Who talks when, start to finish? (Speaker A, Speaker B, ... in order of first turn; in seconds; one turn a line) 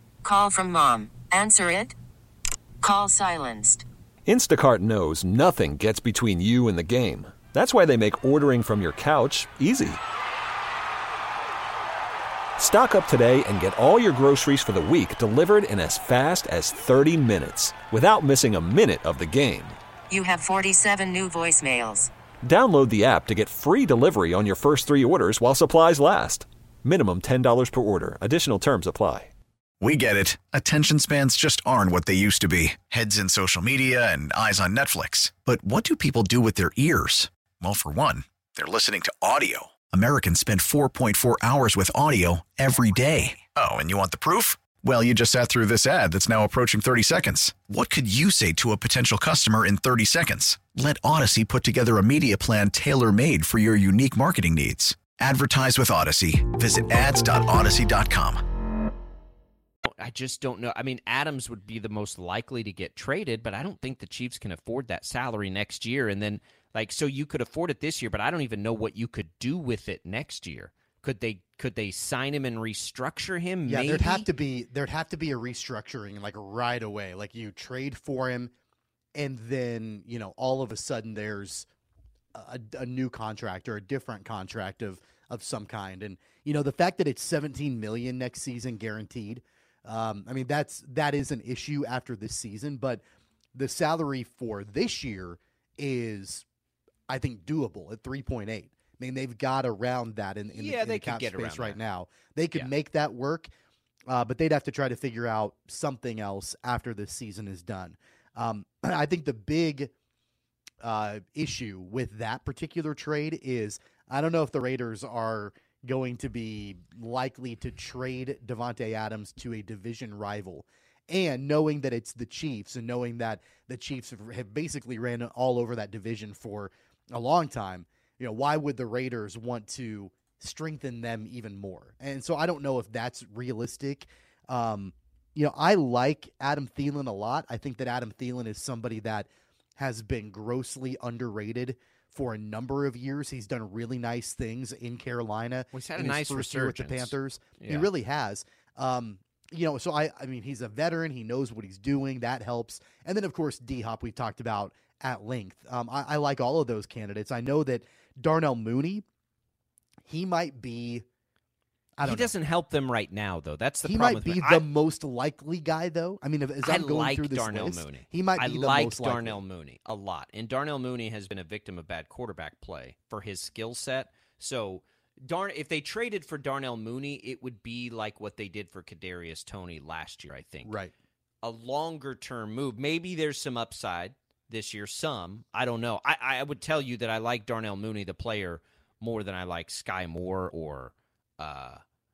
Speaker A: 0.2-1.9
Speaker A: 2.8-3.8
Speaker B: 4.2-10.0
Speaker B: 12.6-19.8
Speaker A: 20.1-22.1
Speaker B: 22.4-29.3
Speaker C: 29.8-58.4
Speaker D: 59.9-74.3
Speaker E: 73.7-78.5
Speaker E: 79.1-81.7
Speaker E: 82.3-93.0
Speaker E: 93.5-96.4
Speaker E: 97.1-103.5
Speaker D: 100.5-101.8
Speaker E: 104.1-109.9
Speaker E: 110.8-159.0
Speaker D: 145.7-147.9
Speaker E: 160.0-161.0
Speaker E: 162.0-162.3
Speaker D: 162.0-164.6
Speaker E: 163.8-169.4
Speaker D: 166.6-180.8
Speaker E: 180.6-180.9
Speaker D: 181.4-191.8